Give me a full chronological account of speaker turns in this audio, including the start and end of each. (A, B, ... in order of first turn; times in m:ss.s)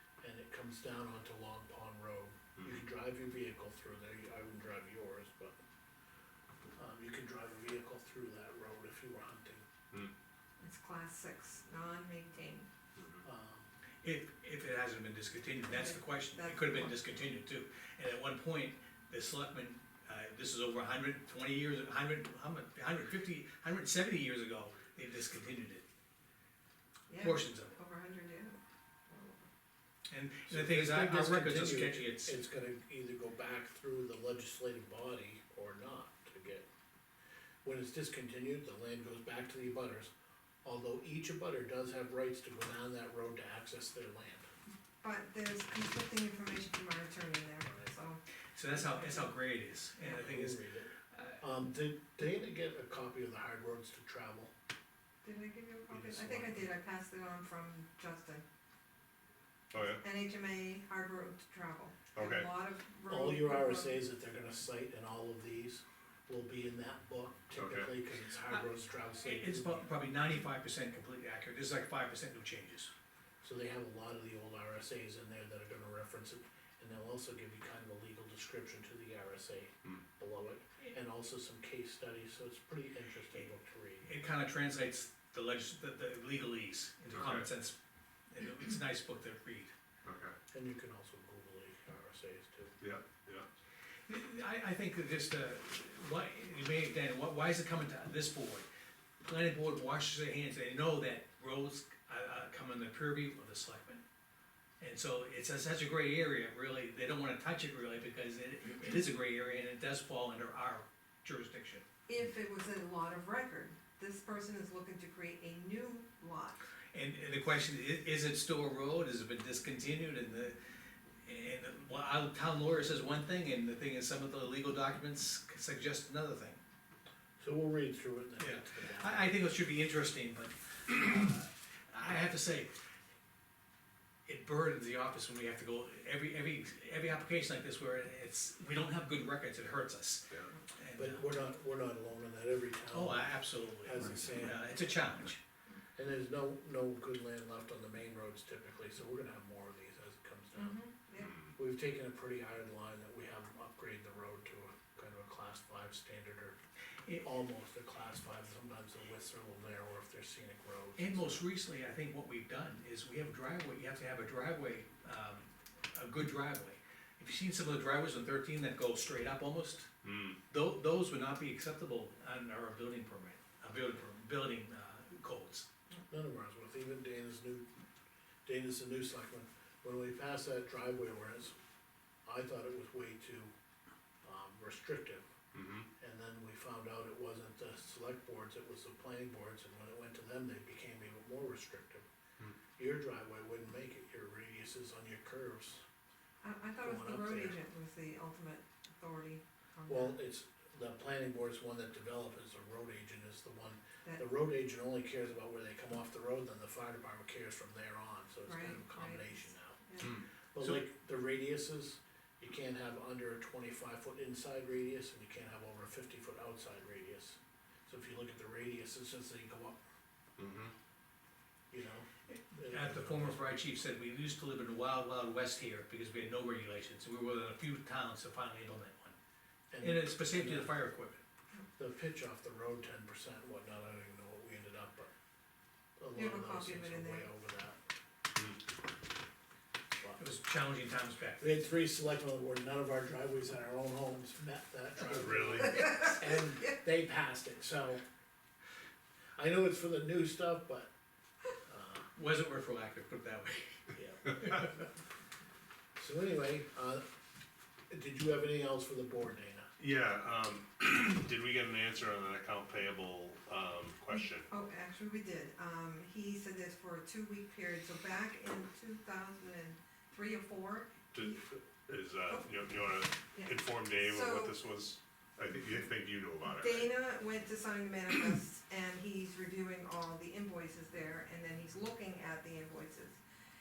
0:00.2-0:05.6 A
0:06.8-0:09.7 A
0:10.6-0:12.7 B
0:13.0-0:13.2 C
0:13.2-0:13.7 A
0:14.0-0:25.8 D
0:15.7-0:17.0 B
0:27.1-0:29.4 B
0:27.2-0:27.8 D
0:30.1-0:32.4 D
0:30.5-0:36.7 A
0:37.6-0:40.1 A
0:40.6-0:44.5 A
0:45.0-0:48.2 B
0:48.6-0:51.4 D
0:48.8-0:49.3 B
0:50.1-0:54.5 A
0:55.2-0:58.4 B
0:55.9-0:56.7 A
0:59.7-1:00.0 C
1:00.0-1:04.0 B
1:02.1-1:02.5 C
1:03.1-1:09.9 A
1:07.5-1:07.9 C
1:09.2-1:12.9 D
1:13.4-1:24.1 A
1:24.0-1:27.8 D
1:27.1-1:27.5 C
1:28.3-1:29.7 D
1:30.0-1:30.4 C
1:30.5-1:32.8 A
1:32.8-1:33.5 C
1:34.1-1:38.7 D
1:39.2-1:44.0 D
1:44.8-1:51.8 D
1:52.1-1:56.7 B
1:56.9-2:00.6 D
2:01.2-2:06.6 D
2:07.4-2:09.4 A
2:08.4-2:12.7 D
2:14.3-2:21.3 D
2:21.0-2:24.6 A
2:22.9-2:25.4 D
2:26.0-2:30.8 A
2:30.6-2:31.4 B
2:31.2-2:31.5 C
2:31.6-2:36.6 A
2:37.2-2:41.4 A
2:41.0-2:49.9 D
2:50.0-2:50.4 C
2:50.5-2:55.7 D
2:56.1-2:57.7 A
2:58.4-3:01.6 A
3:02.3-3:03.5 A
3:04.2-3:05.3 A
3:05.5-3:05.9 C
3:06.0-3:12.1 A
3:12.8-3:15.8 A
3:16.4-3:20.2 B
3:16.8-3:17.6 A
3:19.9-3:39.8 A
3:28.5-3:30.2 B
3:30.0-3:30.2 C
3:40.4-3:40.7 C
3:41.7-3:43.6 A
3:42.3-3:49.2 D
3:49.7-3:50.8 A
3:49.8-3:51.2 D
3:51.8-3:55.1 A
3:56.0-3:57.8 A
3:56.1-3:57.3 B
3:58.3-3:58.6 C
4:00.2-4:01.6 D
4:01.4-4:08.0 A
4:05.0-4:06.2 C
4:09.4-4:10.9 A
4:11.6-4:12.1 A
4:12.2-4:13.8 D
4:13.9-4:14.8 A
4:16.0-4:17.0 A
4:17.9-4:19.7 A
4:19.8-4:24.5 C
4:24.1-4:31.3 B
4:31.1-4:36.9 C
4:32.3-4:32.6 B
4:33.3-4:34.6 B
4:36.5-4:43.2 B